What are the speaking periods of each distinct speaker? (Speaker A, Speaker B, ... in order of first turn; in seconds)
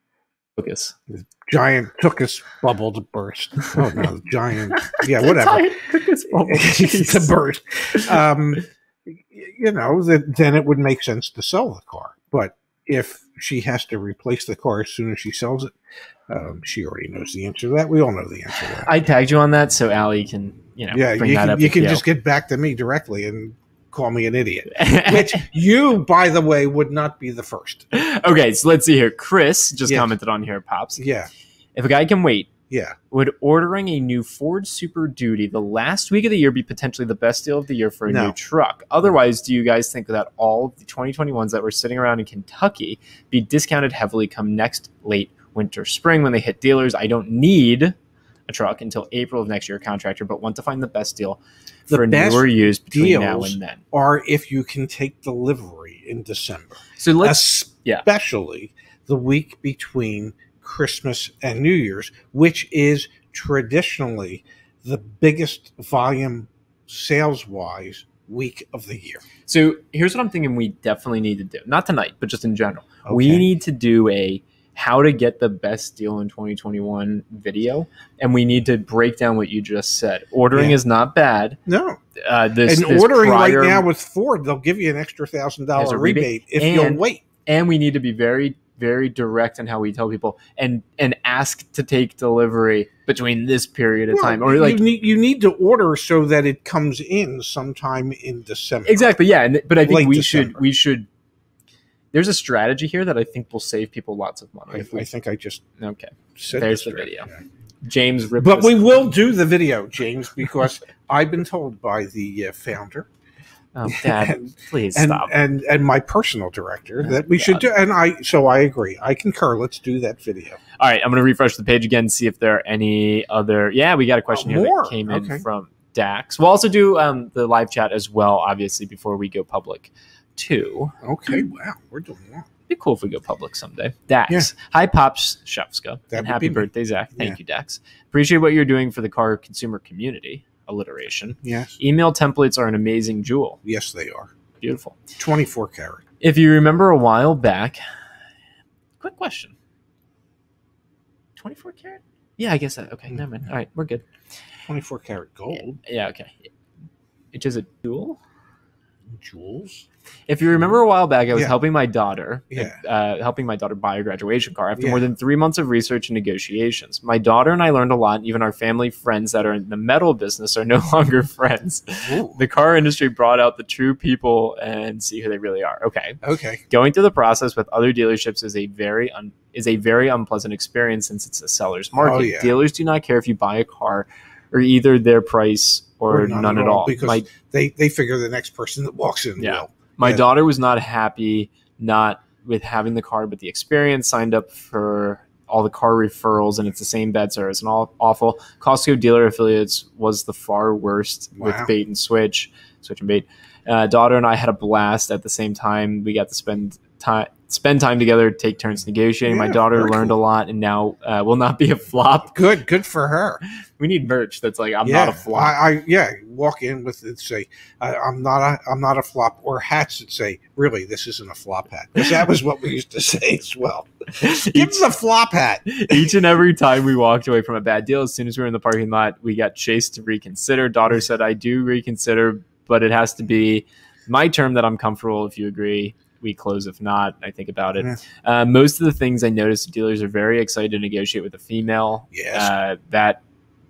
Speaker A: 0.6-0.9, 4.7-7.3, 18.6-22.0, 24.7-25.4, 27.9-31.0, 31.7-32.5, 33.1-47.9, 48.5-53.8, 57.0-58.0, 69.5-81.6, 82.2-83.8, 85.8-94.8, 98.8-101.1, 102.1-105.0, 105.8-107.3, 107.8-109.0, 113.7-115.3, 117.0-117.6, 120.8-131.4, 132.7-143.6, 144.6-145.0, 146.2-147.8, 149.0-149.5, 151.4-154.0, 155.8-156.5, 157.3-158.2, 160.3-187.3, 189.4-212.3, 213.8-215.6, 224.2-224.9, 225.7-243.2
Speaker B: 1.1-5.7, 6.4-15.7, 16.3-18.9, 20.9-27.8, 29.9-30.1, 31.0-31.3, 32.7-33.0, 38.1-38.4, 51.9-69.2, 73.0-73.4, 80.5-80.8, 81.7-82.0, 82.7-87.2, 94.1-99.1, 99.8-100.6, 104.7-105.6, 106.4-107.3, 108.4-113.1, 113.9-120.6, 124.3-125.4, 131.0-132.5, 136.1-137.4, 141.4-141.8, 143.6-144.3, 145.2-146.0, 154.7-155.8, 159.1-159.8, 162.5-162.8, 164.8-165.1, 172.1-172.4, 176.2-176.6, 181.9-182.5, 186.1-190.2, 201.4-201.7, 209.2-210.2, 212.3-213.4, 214.8-223.9, 224.5-226.1, 242.1-242.5